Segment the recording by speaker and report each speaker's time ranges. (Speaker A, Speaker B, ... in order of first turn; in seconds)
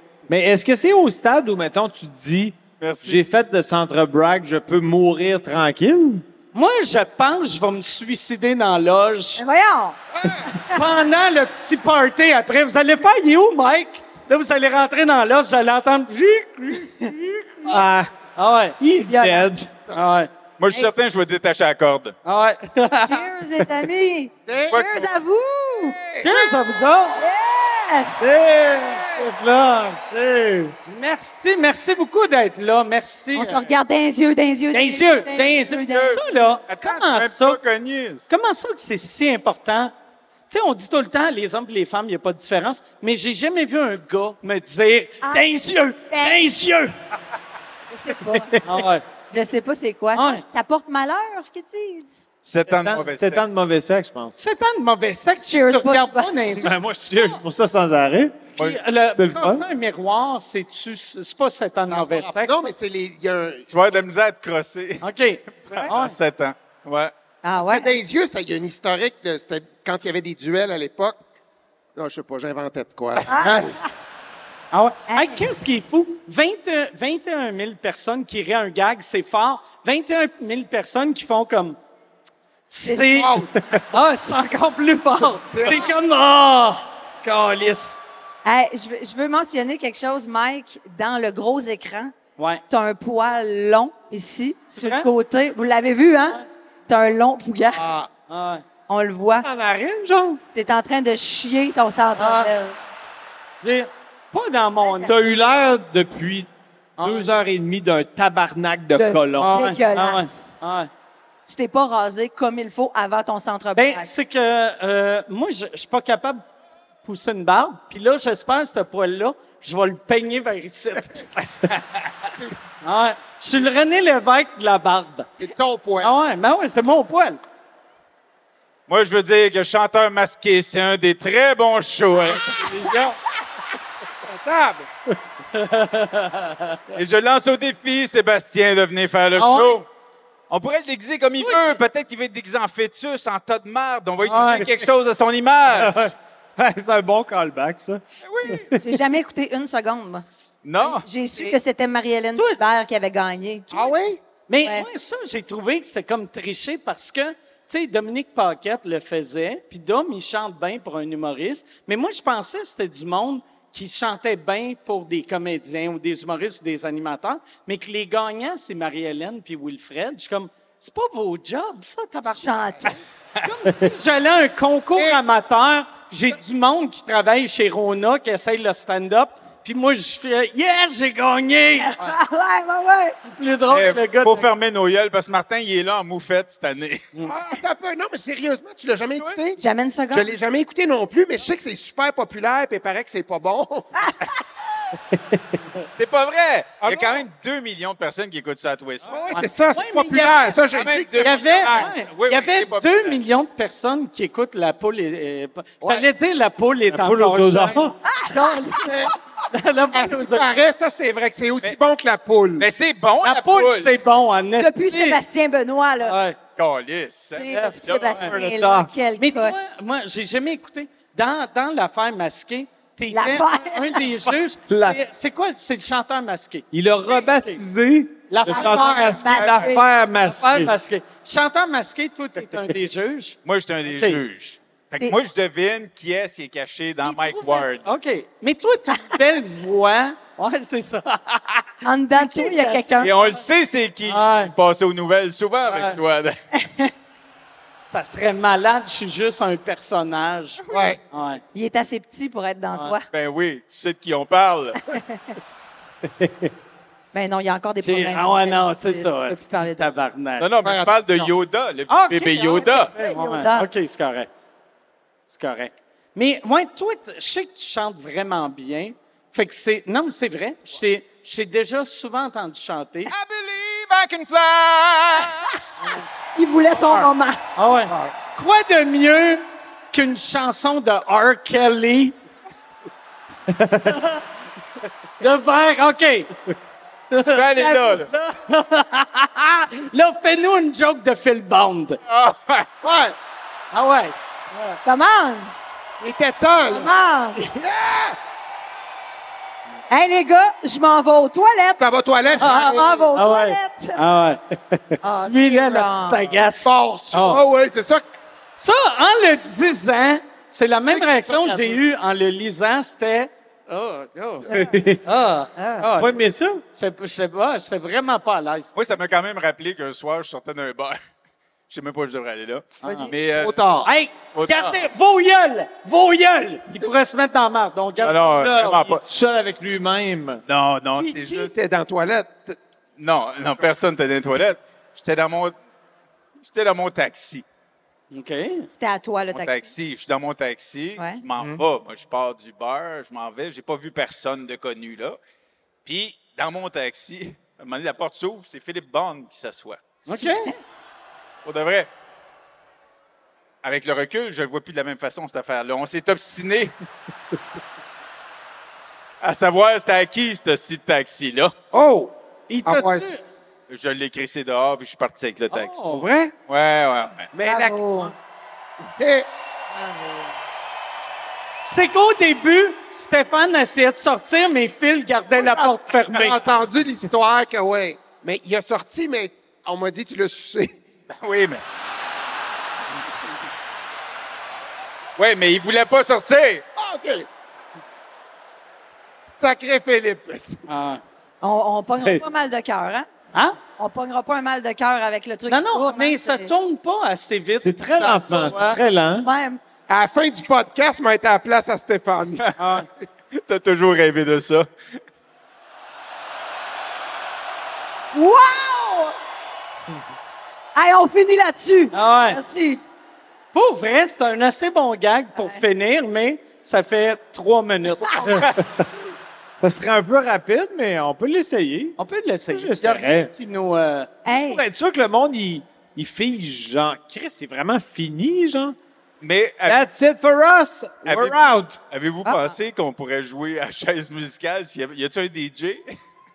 Speaker A: 0.3-6.2, 17.7-18.1, 18.8-19.7, 28.2-30.7, 48.1-48.8, 52.7-54.4, 56.5-58.5, 59.2-59.6, 99.4-100.4, 105.0-106.5, 107.0-109.6, 145.7-149.0, 195.1-195.4, 206.9-207.9, 218.2-218.9, 224.7-225.0, 226.7-230.7, 256.2-256.5, 283.5-283.9, 314.5-315.0, 315.9-316.6, 328.4-330.4, 391.8-392.2, 397.6-399.3, 418.6-418.9, 419.6-422.0, 422.5-423.3, 424.3-428.8, 429.6-431.8
Speaker B: 2.8-3.2, 20.6-22.1, 24.7-25.0, 35.8-38.3, 52.4-53.4, 63.7-65.0, 65.7-67.1, 128.9-133.1, 134.4-134.7, 136.9-139.8, 140.5-146.0, 148.2-148.7, 150.6-151.1, 183.7-187.0, 195.9-199.4, 200.7-203.2, 212.6-213.9, 216.6-218.3, 233.4-237.8, 243.0-246.3, 253.1-254.8, 260.4-262.9, 273.1-275.4, 287.2-288.1, 292.1-292.7, 318.7-321.0, 321.7-323.6, 324.3-324.8, 328.0-329.0, 330.5-331.5, 333.0-335.5, 336.4-337.4, 339.3-345.2, 345.8-349.9, 351.4-351.9, 353.6-356.7, 359.2-361.5, 363.7-365.9, 366.5-367.3, 381.1-381.6, 385.2-386.6, 403.4-404.7, 429.2-429.8, 431.0-435.8
Speaker C: 6.5-9.4, 10.7-17.8, 18.4-18.8, 19.9-20.3, 22.2-23.3, 26.2-27.2, 30.9-33.7, 34.7-37.6, 38.3-39.9, 40.5-46.9, 48.6-49.0, 50.1-50.4, 54.4-56.7, 58.6-62.7, 65.0-66.2, 74.7-81.8, 82.7-83.3, 83.9-88.0, 94.7-95.1, 98.3-98.6, 102.2-102.5, 103.6-105.1, 107.0-107.3, 109.4-110.9, 113.7-116.4, 117.0-121.5, 122.8-125.3, 126.0-127.4, 135.5-136.8, 139.3-139.8, 141.4-141.8, 144.2-144.7, 154.5-172.5, 173.4-181.9, 183.2-184.5, 199.3-200.6, 201.2-208.9, 209.5-210.4, 213.2-215.2, 216.0-216.4, 217.5-218.3, 219.2-227.6, 228.3-234.2, 237.1-243.3, 244.0-244.5, 245.6-246.0, 247.9-251.4, 257.8-260.5, 261.9-264.3, 265.3-273.1, 277.6-282.1, 283.9-284.2, 285.2-286.3, 287.1-292.0, 293.7-294.8, 302.4-304.4, 305.1-307.4, 308.6-314.5, 315.0-316.1, 316.8-318.7, 322.8-323.1, 323.8-328.8, 338.1-338.7, 350.1-350.5, 362.5-363.2, 365.5-366.0, 371.6-376.4, 390.7-391.0, 395.5-398.8, 402.6-402.9, 411.9-412.4, 413.5-418.4, 422.0-424.1
Speaker D: 9.4-10.8, 19.0-19.5, 23.0-26.0, 27.1-28.3, 33.3-36.1, 45.2-46.4, 47.9-48.5, 49.3-52.2, 55.4-56.3, 67.4-67.9, 73.3-73.6, 75.1-75.4, 88.4-92.1, 92.7-97.8, 98.9-99.5, 100.5-102.8, 104.8-105.1, 109.0-110.5, 111.5-114.1, 148.8-150.2, 150.8-153.9, 172.3-173.0, 181.8-183.2, 189.6-190.3, 208.1-208.9, 214.6-216.2, 217.3-219.6, 223.1-224.0, 228.4-229.8, 241.8-243.1, 251.5-253.1, 254.9-255.2, 257.1-259.9, 262.3-263.7, 276.3-277.4, 294.8-295.5, 296.7-297.4, 299.9-301.9, 302.4-304.0, 305.0-306.3, 315.6-315.9, 322.8-323.1, 338.7-339.7, 350.1-350.5, 367.4-368.1, 369.7-370.3, 391.4-393.1, 393.8-396.5, 399.2-399.6, 408.1-409.1, 410.7-412.8, 415.4-415.6, 424.2-424.6, 432.2-432.5
Speaker E: 10.2-10.5, 24.4-25.1, 25.8-26.4, 28.9-29.3, 61.9-63.7, 67.6-71.2, 71.9-73.8, 83.0-83.7, 85.5-85.9, 97.7-98.1, 125.4-126.1, 153.7-154.2, 187.2-189.6, 190.1-194.1, 196.8-197.2, 199.1-201.9, 208.8-209.1, 209.9-212.7, 228.6-229.2, 250.7-251.0, 260.6-261.3, 292.8-293.1, 296.0-298.2, 301.8-303.1, 306.6-308.0, 310.9-311.8, 323.3-323.9, 330.9-332.6, 361.7-362.1, 362.6-363.1, 365.9-366.3, 367.3-368.1, 368.9-369.3, 375.4-380.8, 386.8-387.3, 389.3-390.6, 397.9-398.6, 399.9-402.4